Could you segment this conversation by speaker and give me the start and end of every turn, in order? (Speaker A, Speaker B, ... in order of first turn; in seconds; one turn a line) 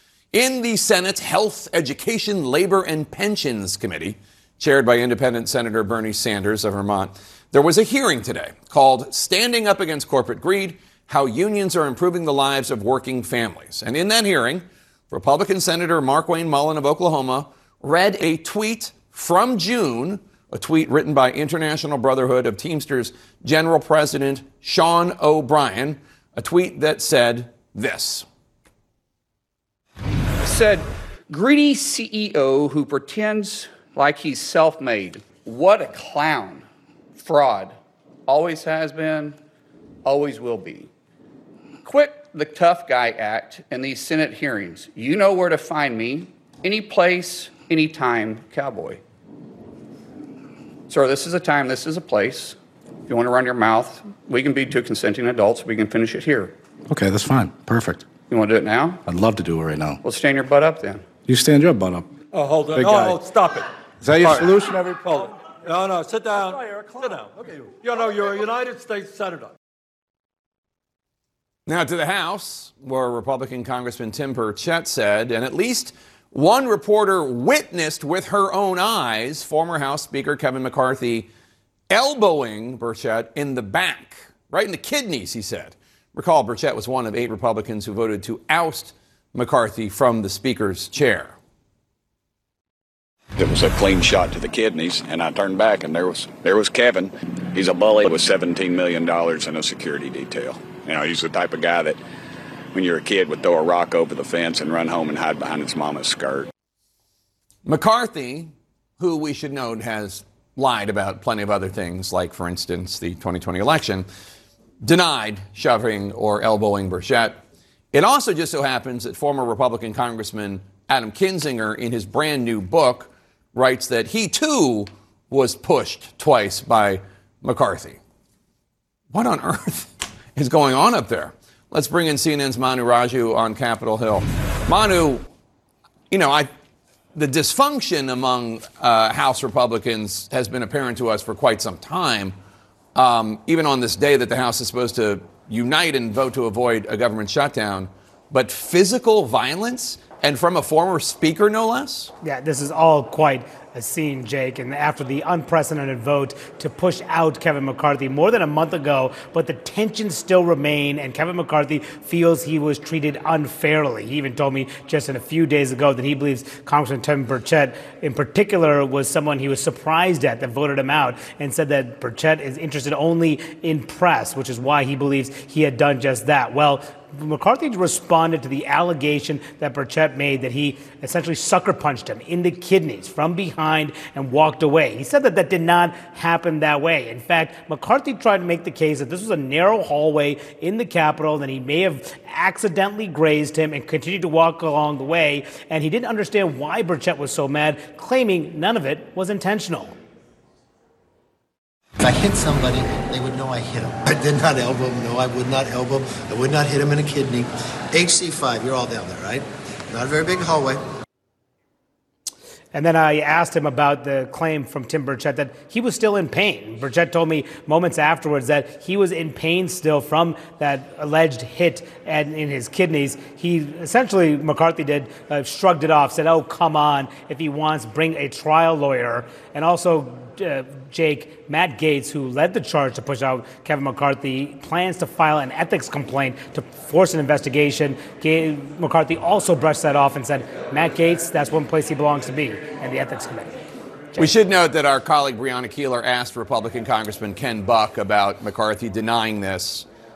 Speaker A: 0.3-28.2
Speaker B: 30.4-39.4
Speaker B: 40.0-40.9
Speaker B: 41.8-49.0
Speaker B: 50.9-56.5
Speaker C: 56.9-58.0
Speaker B: 58.3-59.0
Speaker C: 59.0-60.0
Speaker B: 60.0-61.0
Speaker C: 61.2-62.2
Speaker D: 62.3-69.5
Speaker C: 62.7-63.2
Speaker C: 64.0-65.0
Speaker A: 71.7-81.3
Speaker A: 81.9-91.3
Speaker E: 93.4-102.0
Speaker E: 102.7-106.5
Speaker A: 107.6-114.0
Speaker A: 114.8-128.0
Speaker A: 129.1-135.3
Speaker A: 136.1-136.5
Speaker A: 137.1-142.4
Speaker A: 142.9-152.1
Speaker F: 152.2-199.9
Speaker G: 202.0-210.8
Speaker F: 212.7-243.6
Speaker A: 244.2-249.8